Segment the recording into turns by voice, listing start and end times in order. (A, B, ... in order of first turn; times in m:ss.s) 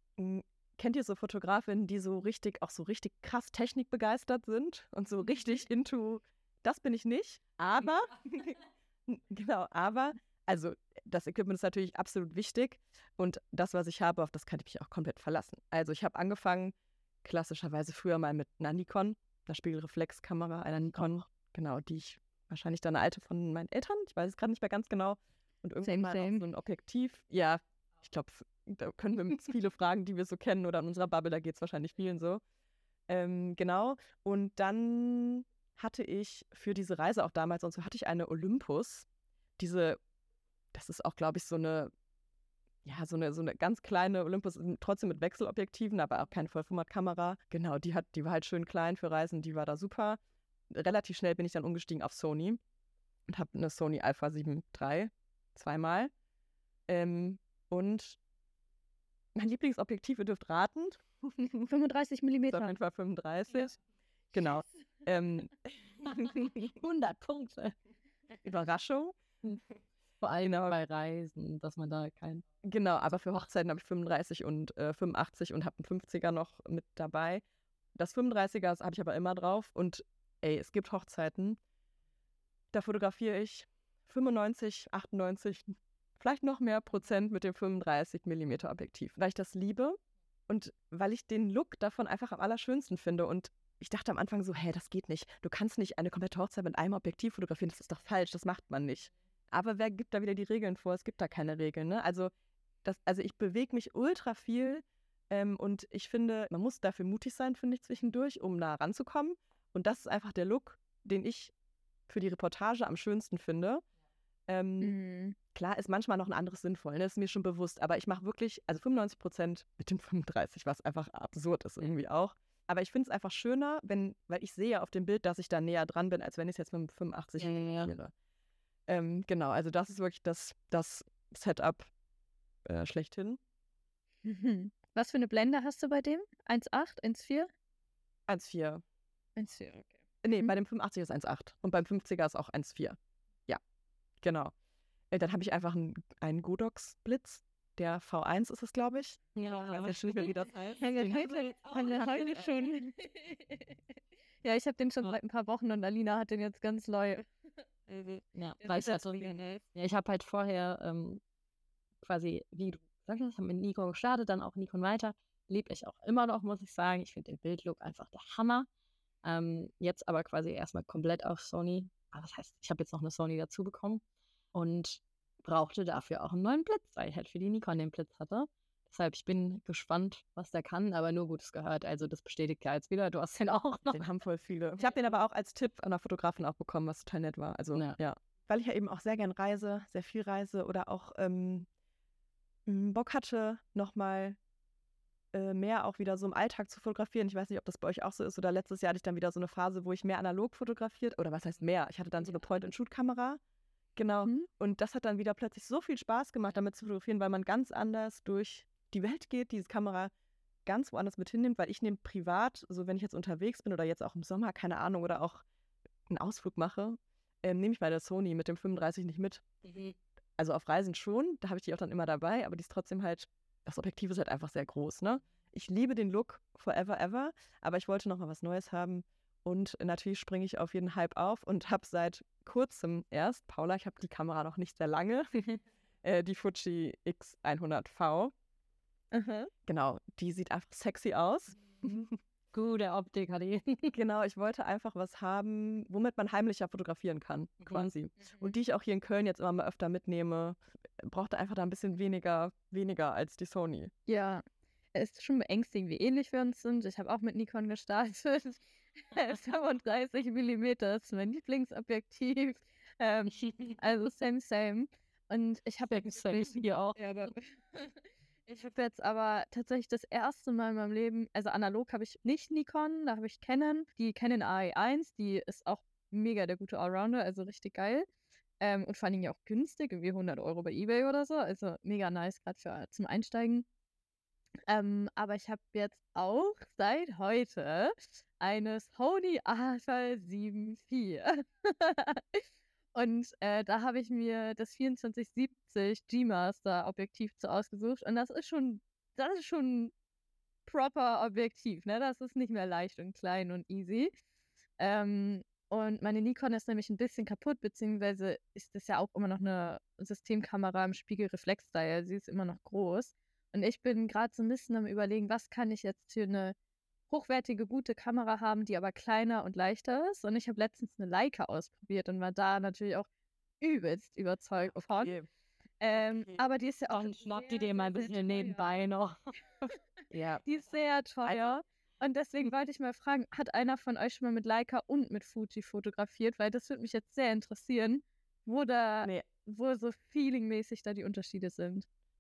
0:00.2-0:32.4 A
0:25.9-0:26.3 B
0:33.1-0:39.1 A
0:39.6-0:40.0 A
0:40.7-0:41.9 A
0:42.8-0:50.2 A
0:50.7-0:52.6 A
0:53.3-0:56.1 A
0:56.9-0:58.2 A
0:59.4-1:01.7 A
1:01.7-1:02.8 C
1:02.5-1:03.8 A
1:04.3-1:06.7 A
1:06.8-1:07.8 B
1:08.4-1:09.2 A
1:10.2-1:12.4 B
1:10.4-1:10.8 A
1:12.6-1:17.4 A
1:18.0-1:21.6 A
1:22.7-1:42.3 A
1:42.8-1:51.5 A
1:52.1-1:53.8 A
1:54.5-1:55.0 A
1:54.8-1:55.4 C
1:55.5-2:08.1 A
2:07.4-2:07.9 B
2:08.9-2:11.9 A
2:12.6-2:13.4 A
2:14.2-2:17.5 C
2:18.3-2:18.8 A
2:19.4-2:20.5 C
2:20.2-2:23.6 A
2:24.2-2:24.5 A
2:25.1-2:32.5 A
2:29.4-2:32.5 B
2:31.0-2:33.8 C
2:34.4-2:37.2 C
2:38.3-2:41.2 B
2:38.7-2:39.0 C
2:42.0-2:48.7 B
2:49.2-2:54.0 B
2:54.5-3:04.0 B
3:03.9-3:11.7 A
3:12.7-3:14.4 A
3:15.3-3:23.4 A
3:24.0-3:30.1 A
3:30.7-3:35.4 A
3:36.1-3:39.4 A
3:39.6-3:40.0 B
3:40.4-3:55.4 A
3:56.0-3:58.3 A
3:59.1-3:59.5 C
3:59.6-4:02.1 A
4:02.5-4:03.9 B
4:03.9-4:13.9 A
4:07.6-4:07.9 B
4:14.1-4:38.1 C
4:26.2-4:26.6 B
4:38.6-4:43.7 C
4:44.7-4:52.4 C
4:52.9-4:59.9 C
5:00.7-5:04.1 C
5:04.8-5:16.6 C
5:17.1-5:23.1 C
5:23.6-5:25.1 C
5:25.0-5:25.3 A
5:25.8-5:28.7 C
5:26.0-5:26.4 A
5:26.9-5:29.4 B
5:30.1-5:30.4 A
5:30.4-5:41.9 C
5:31.2-5:31.5 A